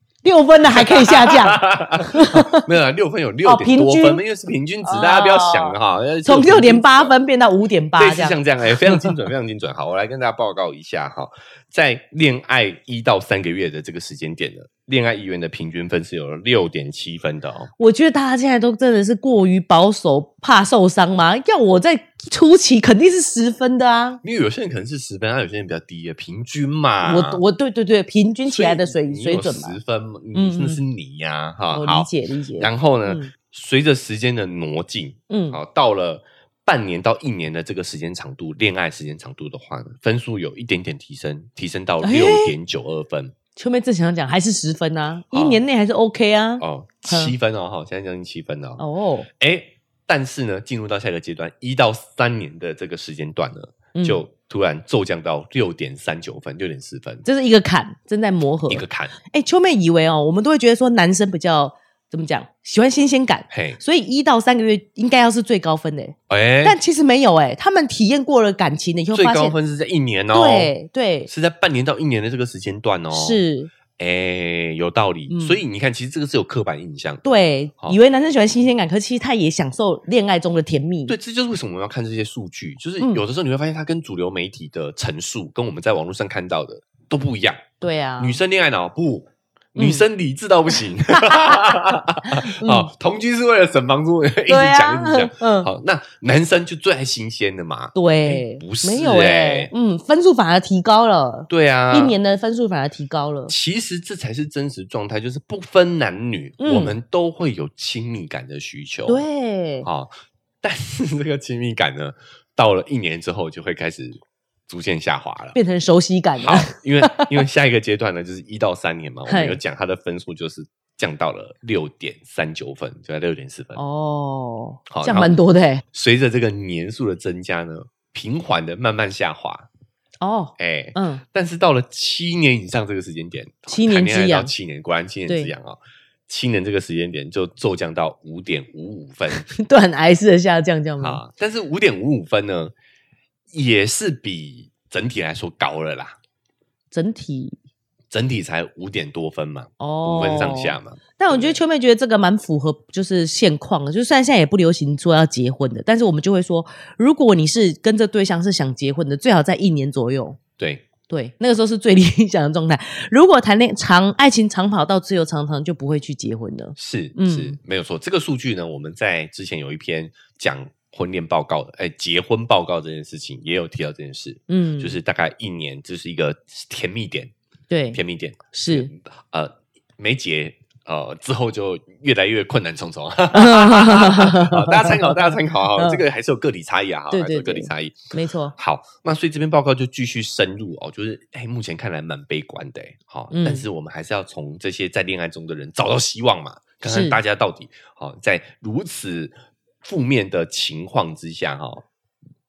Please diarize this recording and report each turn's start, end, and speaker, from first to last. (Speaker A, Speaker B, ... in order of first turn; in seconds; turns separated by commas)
Speaker A: 0.2-2.6, Speaker B: 0.7-7.2, Speaker A: 3.5-4.2, Speaker A: 4.8-9.1, Speaker B: 8.0-17.7, Speaker A: 17.8-24.2, Speaker B: 24.2-27.4, Speaker A: 27.0-29.8, Speaker B: 28.5-43.3, Speaker A: 30.3-30.8, Speaker A: 31.7-33.3, Speaker A: 35.3-35.6, Speaker A: 42.0-42.5, Speaker A: 43.6-47.3, Speaker B: 45.3-45.6, Speaker B: 46.6-48.8, Speaker A: 48.8-49.3, Speaker B: 49.4-57.2, Speaker A: 54.0-54.2, Speaker A: 57.2-69.6, Speaker B: 58.7-59.1, Speaker B: 63.5-63.8, Speaker B: 66.3-66.8, Speaker B: 69.1-70.7, Speaker A: 70.3-71.3, Speaker B: 71.3-73.4, Speaker A: 73.1-73.7, Speaker B: 74.0-77.2, Speaker A: 75.3-75.6, Speaker A: 77.2-81.1, Speaker B: 81.1-87.7, Speaker A: 87.8-88.4, Speaker B: 88.2-99.7, Speaker A: 89.8-90.0, Speaker A: 91.1-92.9, Speaker A: 94.5-95.7, Speaker A: 98.0-103.5, Speaker B: 101.5-102.2, Speaker B: 103.5-109.2, Speaker A: 106.6-107.0, Speaker A: 109.1-109.9, Speaker B: 109.8-110.1, Speaker B: 110.6-115.6, Speaker A: 115.5-117.4, Speaker B: 116.4-123.8, Speaker A: 119.3-119.6, Speaker A: 123.8-125.8, Speaker B: 124.9-125.3, Speaker B: 125.9-129.7, Speaker A: 130.2-131.2, Speaker B: 130.6-139.5, Speaker A: 133.7-134.5, Speaker A: 139.5-141.2, Speaker B: 141.0-142.7, Speaker B: 143.5-146.2, Speaker A: 146.9-147.6, Speaker B: 148.1-151.6, Speaker A: 149.8-160.4, Speaker B: 160.6-160.8, Speaker A: 161.1-167.6, Speaker B: 166.8-177.3, Speaker A: 174.5-174.9, Speaker A: 177.7-178.0, Speaker B: 177.9-201.8, Speaker A: 178.5-178.9, Speaker A: 183.3-186.0, Speaker A: 187.1-188.6, Speaker A: 193.3-193.7, Speaker A: 196.8-197.2